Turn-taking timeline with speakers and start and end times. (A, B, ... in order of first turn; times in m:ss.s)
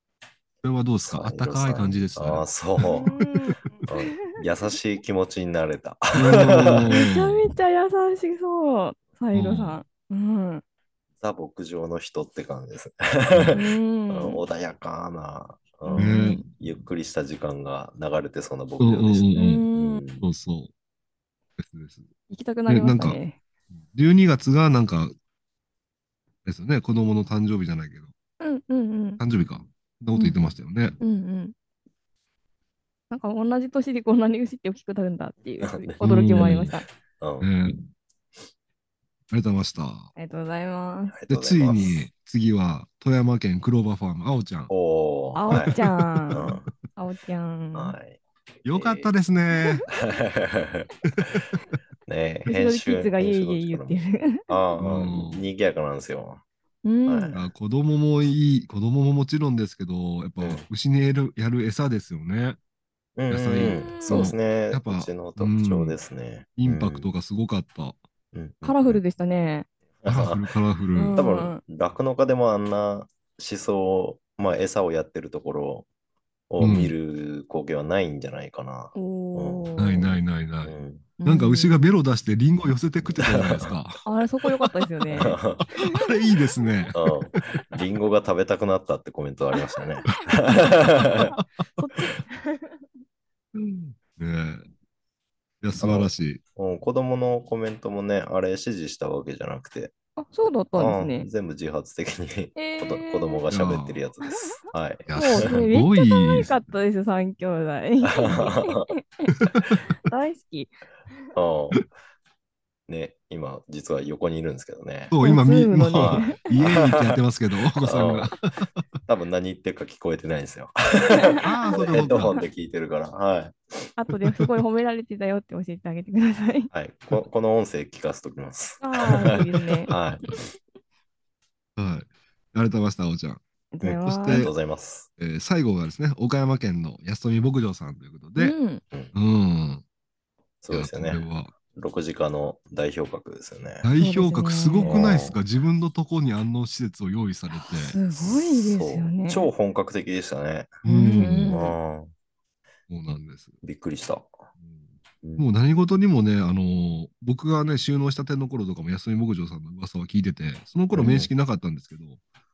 0:00.6-0:03.0 A
0:01.1-0:03.2 B
0:02.8-0:04.0 C
0:03.8-0:06.9 B
0:06.1-0:07.4 A
0:06.9-0:10.6 C
0:09.3-0:09.8 A
0:11.2-0:20.3 B
0:13.3-0:13.6 A
0:13.5-0:14.4 C
0:15.9-0:16.4 C
0:16.0-0:16.4 A
0:18.8-0:19.6 A
0:19.3-0:20.0 C
0:20.2-0:20.7 A
0:21.6-0:22.1 A
0:22.3-0:23.4 C
0:22.7-0:23.2 A
0:23.9-0:25.1 A
0:26.4-0:28.1 A
0:28.4-0:29.2 C
0:29.2-0:31.0 A
0:30.1-0:30.4 C
0:31.0-0:31.5 C
0:33.1-0:36.8 C
0:35.6-0:36.7 B
0:36.0-0:36.7 A
0:37.2-0:37.5 B
0:37.4-0:37.9 A
0:39.3-0:40.1 A
0:40.2-0:41.2 C
0:41.1-0:42.0 B
0:41.3-0:44.7 A
0:44.7-0:45.7 B
0:45.3-0:48.0 C
0:45.5-0:46.5 A
0:46.3-0:46.7 B
0:47.7-0:49.1 B
0:48.6-0:49.8 A
0:49.9-0:51.4 B
0:52.0-0:54.0 B
0:52.5-0:54.6 C
0:54.5-0:56.4 B
0:54.8-0:55.5 A
0:56.8-0:57.4 C
0:57.1-0:57.4 B
0:57.3-1:02.6 A
1:03.2-1:07.0 B
1:03.3-1:06.0 A
1:03.6-1:04.3 C
1:06.6-1:08.0 A
1:08.3-1:09.0 B
1:08.6-1:09.7 C
1:10.0-1:10.4 B
1:10.1-1:11.2 A
1:10.9-1:11.6 C
1:11.1-1:15.8 B
1:16.5-1:21.1 B
1:16.6-1:16.9 A
1:18.9-1:20.1 C
1:19.8-1:24.0 A
1:21.2-1:21.9 C
1:23.2-1:23.7 B
1:24.0-1:25.9 C
1:25.1-1:25.7 B
1:25.9-1:27.0 A
1:26.9-1:31.4 B
1:31.8-1:32.8 C
1:33.6-1:34.7 A
1:35.6-1:36.4 A
1:35.8-1:39.9 B
1:40.2-1:41.3 C
1:40.8-1:45.1 B
1:42.6-1:43.4 C
1:43.5-1:44.0 A
1:45.1-1:46.5 A
1:45.1-1:49.3 C
1:48.0-1:48.9 B
1:50.0-1:50.7 C
1:51.3-1:51.9 B
1:52.9-1:55.1 B
1:55.1-1:58.6 A
1:55.2-1:56.5 C
1:55.9-1:57.2 B
1:57.8-1:58.3 B
1:59.1-2:03.6 B
2:01.2-2:02.4 C
2:01.4-2:02.4 A
2:04.0-2:06.7 C
2:06.7-2:10.4 B
2:08.8-2:09.9 C
2:11.8-2:13.4 A
2:13.7-2:14.5 C
2:13.8-2:15.1 B
2:14.0-2:14.5 A
2:15.2-2:18.6 A
2:18.4-2:18.8 C
2:19.1-2:19.8 A
2:20.6-2:23.8 B
2:20.7-2:21.5 A
2:23.8-2:28.0 A
2:24.0-2:25.0 C
2:24.8-2:25.4 B
2:27.7-2:29.5 C
2:28.1-2:30.8 B
2:30.8-2:31.6 A
2:30.8-2:31.7 C
2:31.4-2:32.1 B
2:32.9-2:33.6 A
2:33.6-2:34.3 B
2:34.6-2:42.2 A
2:40.9-2:41.3 B